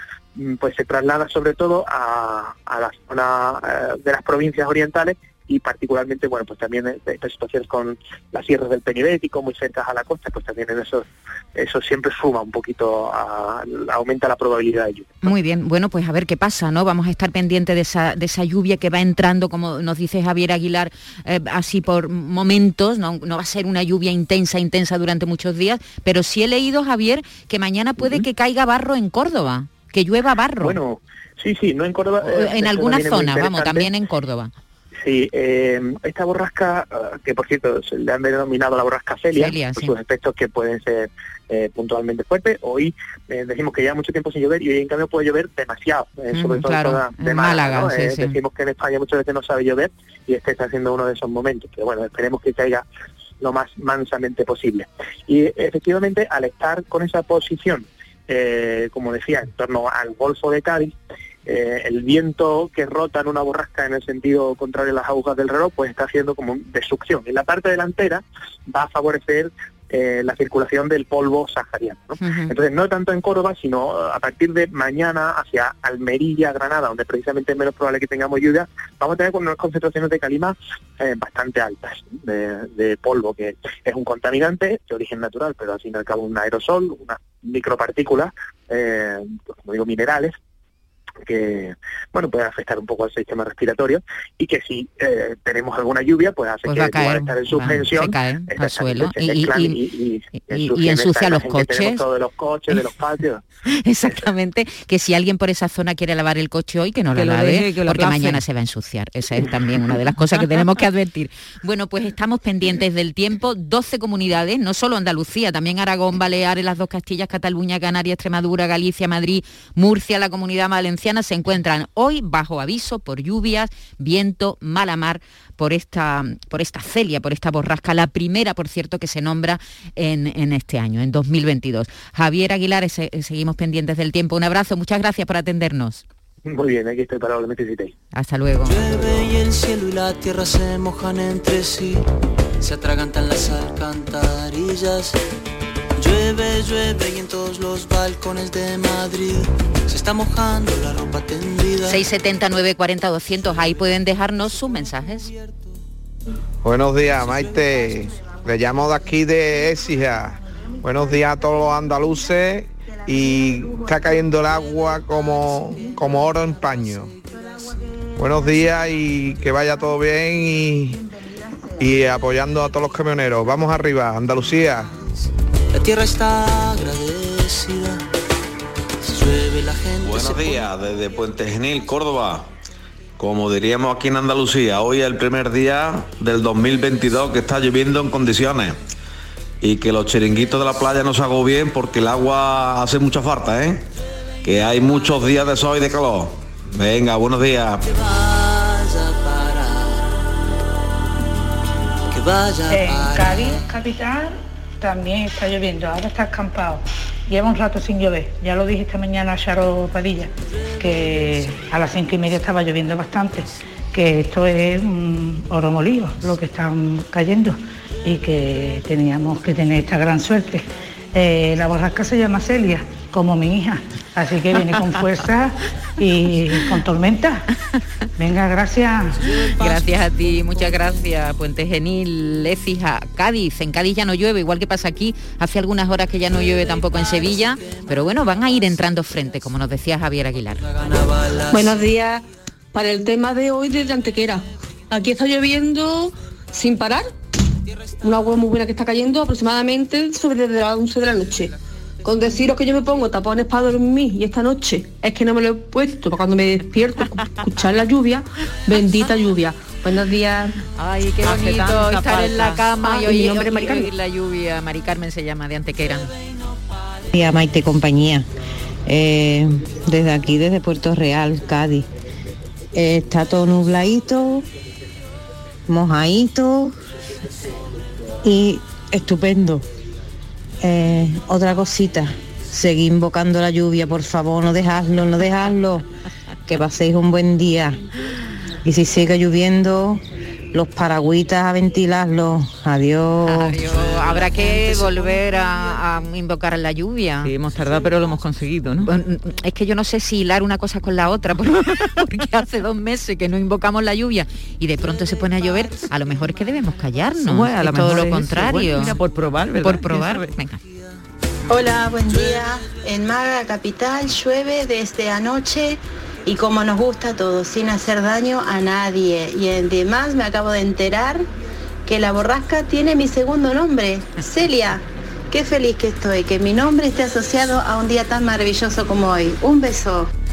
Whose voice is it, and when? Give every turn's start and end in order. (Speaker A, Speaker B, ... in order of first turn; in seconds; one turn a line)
Speaker A: 0.3-15.2
Speaker B: 15.2-30.8
Speaker A: 30.6-33.9
Speaker B: 32.2-34.5
Speaker A: 35.0-52.8
Speaker B: 39.4-39.9
Speaker B: 46.3-48.4
Speaker A: 53.4-60.9
Speaker A: 61.5-90.3
Speaker B: 72.2-72.5
Speaker A: 91.2-103.4
Speaker B: 96.7-99.8
Speaker B: 100.3-102.0
Speaker B: 103.7-136.0
Speaker C: 107.1-108.4
Speaker A: 136.4-137.9
Speaker B: 138.1-138.8
Speaker D: 138.6-142.0
Speaker D: 142.6-145.2
Speaker D: 146.0-152.0
Speaker B: 151.9-155.3
Speaker E: 156.6-167.1
Speaker D: 157.3-158.1
Speaker E: 168.2-171.0
Speaker E: 171.8-174.9
Speaker D: 175.7-178.0
Speaker D: 179.0-180.6
Speaker F: 180.0-182.4
Speaker F: 183.2-188.8
Speaker F: 189.6-193.8
Speaker F: 194.4-197.8
Speaker D: 198.1-200.0
Speaker D: 202.1-203.4
Speaker G: 202.7-227.4
Speaker G: 228.2-229.2
Speaker B: 229.6-240.7
Speaker D: 240.8-241.9
Speaker H: 241.6-242.2
Speaker H: 242.7-244.4
Speaker H: 244.9-247.0
Speaker H: 248.1-251.5
Speaker H: 252.1-258.2
Speaker H: 258.8-260.4
Speaker C: 260.8-262.7
Speaker B: 261.1-266.1
Speaker I: 267.1-268.3
Speaker I: 268.9-271.9
Speaker I: 272.7-274.4
Speaker I: 275.7-276.7
Speaker I: 278.2-279.6
Speaker I: 280.6-285.9
Speaker I: 286.4-287.8
Speaker I: 288.6-290.0
Speaker I: 290.5-293.4
Speaker B: 293.2-297.3
Speaker C: 293.5-294.8
Speaker C: 297.2-298.9
Speaker B: 298.8-309.0
Speaker C: 307.2-310.4
Speaker B: 309.6-310.6
Speaker J: 311.5-321.2
Speaker J: 321.9-330.1